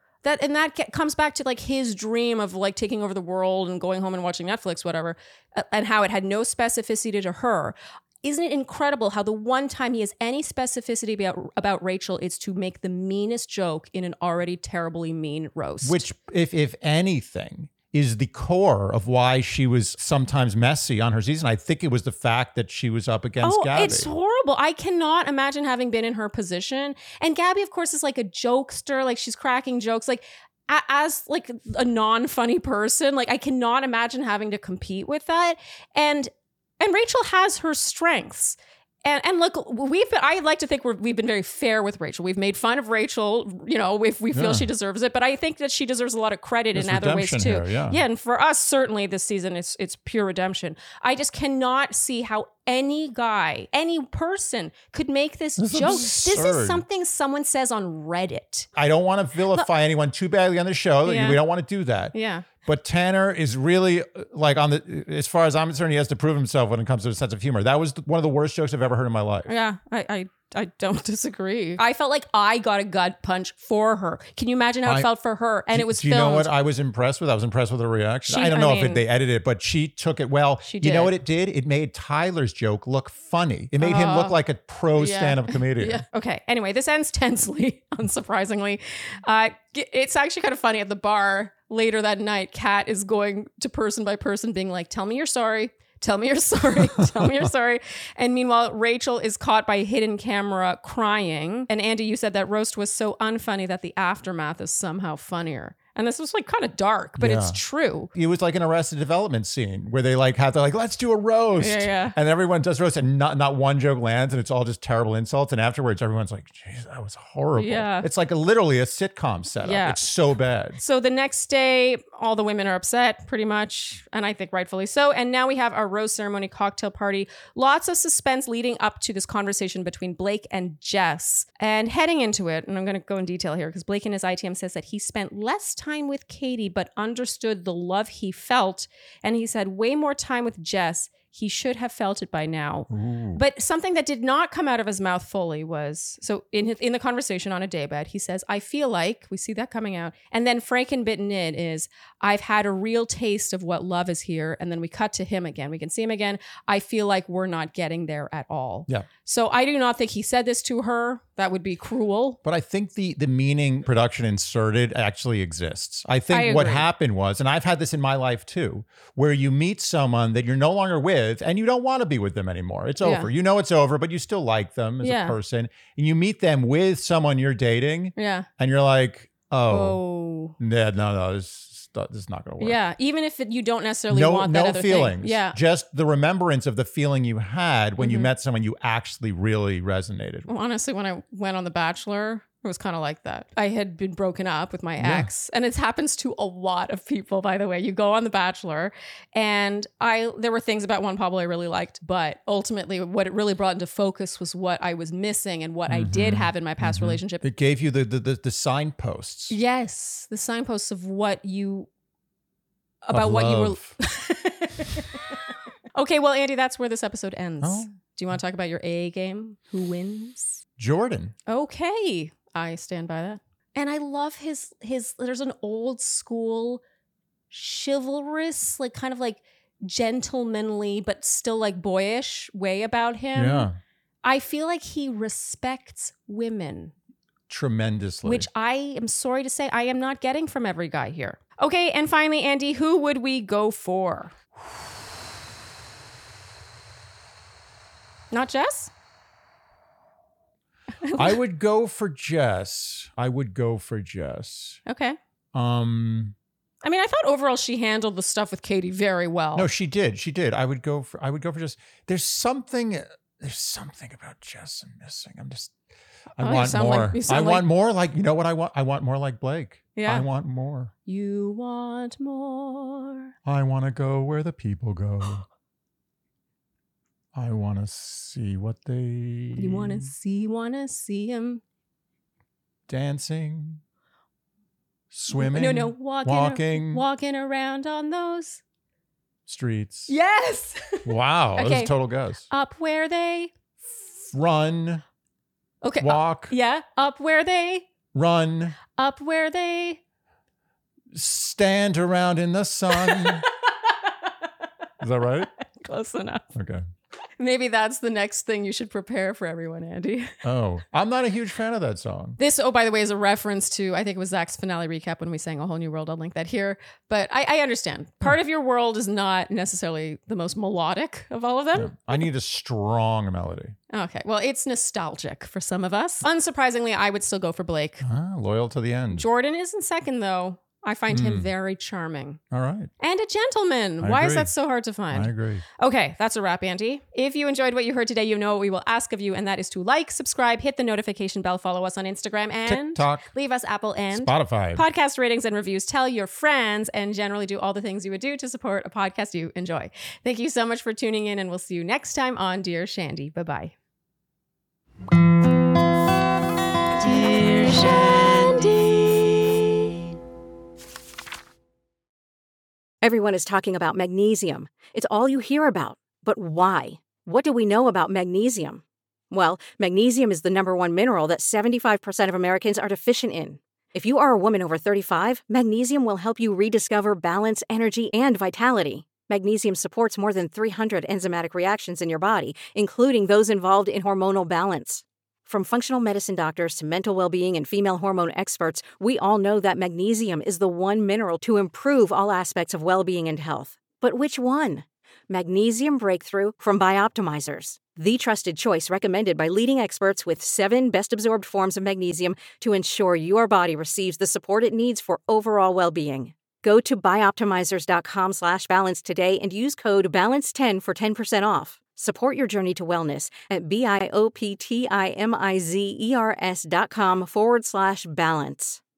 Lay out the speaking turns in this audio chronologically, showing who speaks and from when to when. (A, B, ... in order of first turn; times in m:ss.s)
0:00.2-0:16.0 A
0:15.8-0:24.1 B
0:23.4-0:58.7 A
0:44.3-0:44.7 B
0:46.7-0:48.0 B
0:55.6-0:56.8 B
0:58.8-1:09.5 B
1:01.0-1:01.4 A
1:02.1-1:02.5 A
1:09.5-1:16.5 A
1:15.7-1:26.0 B
1:18.3-1:19.0 A
1:20.6-1:21.1 A
1:23.8-1:24.4 A
1:25.0-1:48.1 A
1:36.8-1:37.3 B
1:47.2-1:47.6 B
1:48.1-2:00.8 B
1:51.6-1:52.2 A
1:57.6-1:58.1 A
1:59.6-2:00.0 A
2:00.8-2:42.4 A
2:22.9-2:23.4 B
2:42.4-3:00.0 B
2:46.3-2:46.8 A
2:53.0-2:53.3 A
2:55.0-2:55.4 A
2:58.2-2:58.5 A
2:59.7-3:00.6 A
3:00.6-3:02.8 B
3:02.6-3:05.6 A
3:04.1-3:10.5 B
3:08.0-3:08.3 A
3:10.5-3:27.4 A
3:15.0-3:15.3 B
3:25.9-3:29.6 B
3:29.5-3:31.9 A
3:33.0-3:35.4 A
3:33.1-3:34.0 B
3:36.0-3:40.6 A
3:37.6-3:37.9 B
3:40.8-3:41.3 B
3:41.5-3:46.8 A
3:47.5-3:53.7 A
3:53.3-3:53.8 B
3:54.2-3:56.9 A
3:57.5-3:58.5 B
3:58.2-4:04.3 A
4:08.3-4:08.9 A
4:11.0-4:11.4 A
4:11.1-4:14.8 B
4:14.9-4:15.2 A
4:15.5-4:16.4 B
4:16.8-4:19.7 A
4:19.6-4:25.8 B
4:26.4-4:30.9 B
4:26.4-4:27.7 A
4:30.0-4:30.3 A
4:31.1-4:33.3 A
4:33.4-4:35.4 B
4:37.3-4:40.1 B
4:39.6-4:41.6 A
4:42.9-4:43.8 B
4:45.1-4:47.0 B
4:45.3-4:48.6 A
4:49.5-4:50.1 B
4:50.1-4:51.9 A
4:51.0-4:52.5 B
4:52.5-4:53.5 A
4:53.8-4:55.0 B
4:55.8-4:57.9 A
4:56.0-4:56.5 B
4:58.1-4:58.8 B
4:58.9-5:00.0 A
5:01.1-5:03.5 B
5:03.0-5:03.4 A
5:05.0-5:05.5 B
5:05.7-5:06.5 A
5:06.5-5:06.8 B
5:07.4-5:10.4 A
5:10.4-5:12.4 B
5:12.4-5:22.3 A
5:21.8-5:23.8 B
5:23.9-5:28.0 A
5:28.0-5:29.3 B
5:29.1-5:32.4 A
5:31.1-5:31.5 B
5:32.5-5:32.9 B
5:33.0-5:53.7 A
5:34.0-5:34.5 B
5:35.1-5:35.6 B
5:42.7-5:43.3 B
5:44.1-5:44.8 B
5:57.0-6:00.0 C
5:57.2-5:58.7 A
6:03.0-6:58.8 C